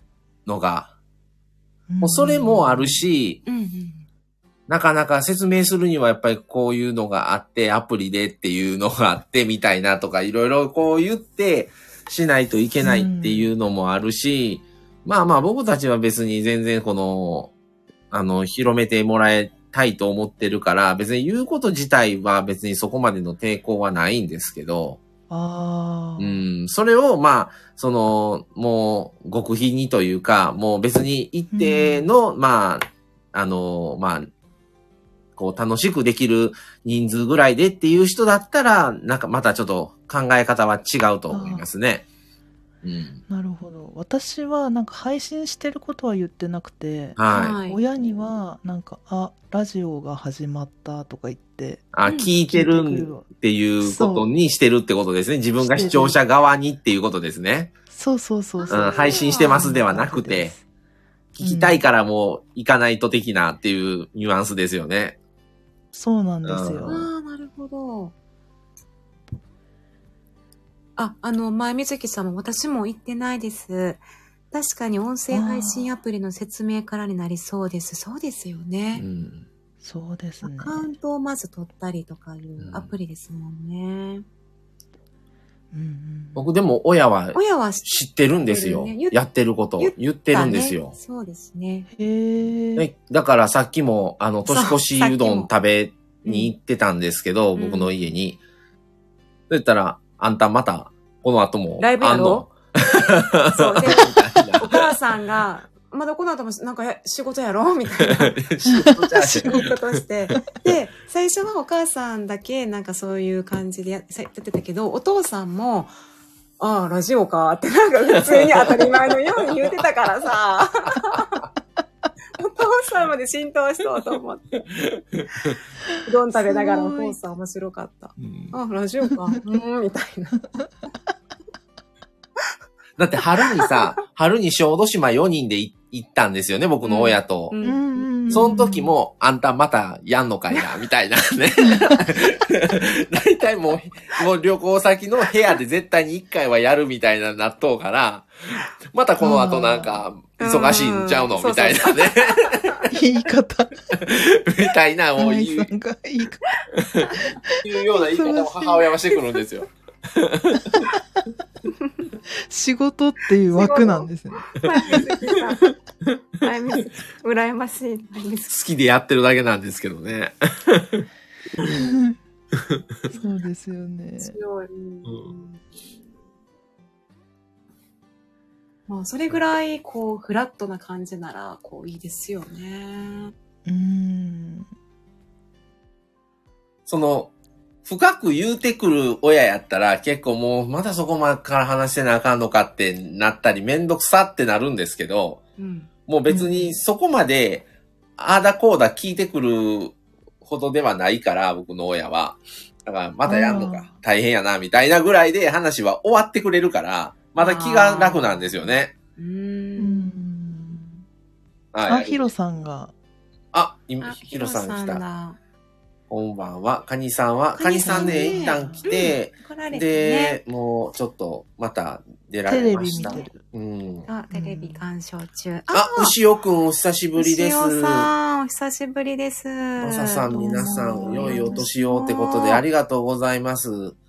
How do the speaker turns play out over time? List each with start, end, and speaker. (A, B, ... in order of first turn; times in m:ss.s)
0:00.4-0:00.9 A
0:01.9-0:03.0 B
0:02.0-0:03.4 A
0:03.4-0:04.1 C
0:04.7-0:17.5 A
0:12.8-0:13.5 B
0:18.1-0:25.0 A
0:25.3-0:26.4 B
0:26.2-0:34.3 A
0:31.5-0:32.1 B
0:35.4-0:42.0 A
0:41.3-0:41.6 B
0:42.8-0:43.2 A
0:43.3-0:53.3 B
0:47.2-0:47.6 A
0:47.3-0:47.8 C
0:51.9-0:57.7 A
0:52.0-0:52.3 C
0:53.8-0:54.3 B
0:55.6-0:56.2 B
0:57.9-1:00.6 B
0:58.6-0:59.7 C
0:58.7-1:00.5 A
1:01.3-1:05.2 A
1:01.4-1:01.8 B
1:05.9-1:07.0 B
1:06.4-1:07.0 A
1:06.8-1:08.1 C
1:11.0-1:19.0 C
1:15.3-1:15.9 B
1:19.0-1:19.5 A
1:19.8-1:20.9 B
1:20.4-1:24.2 C
1:22.6-1:22.9 A
1:25.7-1:26.5 B
1:26.3-1:31.0 A
1:27.3-1:29.2 C
1:29.8-1:31.9 C
1:31.9-1:32.9 B
1:32.8-1:38.4 A
1:34.4-1:35.5 C
1:36.2-1:36.5 C
1:37.6-1:37.9 C
1:39.5-1:44.9 A
1:41.8-1:48.4 C
1:48.0-1:50.4 A
1:48.7-1:49.6 B
1:49.4-1:55.9 C
1:56.6-2:01.4 C
1:58.1-1:59.6 A
2:02.4-2:04.6 C
2:04.7-2:05.6 A
2:06.0-2:10.5 C
2:06.4-2:07.2 B
2:08.2-2:08.5 A
2:13.0-2:17.6 A
2:16.8-2:18.5 C
2:17.6-2:18.9 B
2:18.3-2:32.8 A
2:29.2-2:30.0 B
2:30.4-2:32.9 C
2:32.9-2:34.0 B
2:33.9-2:35.7 A
2:35.2-2:36.5 B
2:36.8-2:40.8 A
2:37.1-2:38.8 B
2:42.5-2:45.0 B
2:43.5-2:45.7 C
2:46.4-2:48.5 C
2:48.5-2:51.0 A
2:51.6-2:52.2 B
2:52.5-2:52.8 A
2:53.1-2:54.4 B
2:54.2-2:55.6 C
2:55.0-2:55.3 A
2:58.9-3:03.3 C
3:03.6-3:04.7 B
3:06.9-3:07.3 A
3:07.8-3:15.4 A
3:15.6-3:15.9 C
3:16.1-3:17.6 A
3:16.3-3:16.7 B
3:18.2-3:28.9 A
3:23.2-3:23.9 B
3:27.4-3:30.1 C
3:29.8-3:31.0 B
3:31.7-3:32.3 A
3:31.9-3:32.9 B
3:33.5-3:35.0 A
3:34.0-3:35.4 C
3:36.1-3:44.1 A
3:37.5-3:40.4 C
3:37.8-3:38.9 B
3:42.4-3:43.4 B
3:42.8-3:43.3 C
3:44.1-3:46.1 C
3:44.3-3:44.8 B
3:45.7-3:48.1 A
3:47.2-3:52.6 C
3:49.8-3:54.0 A
3:50.3-3:51.7 B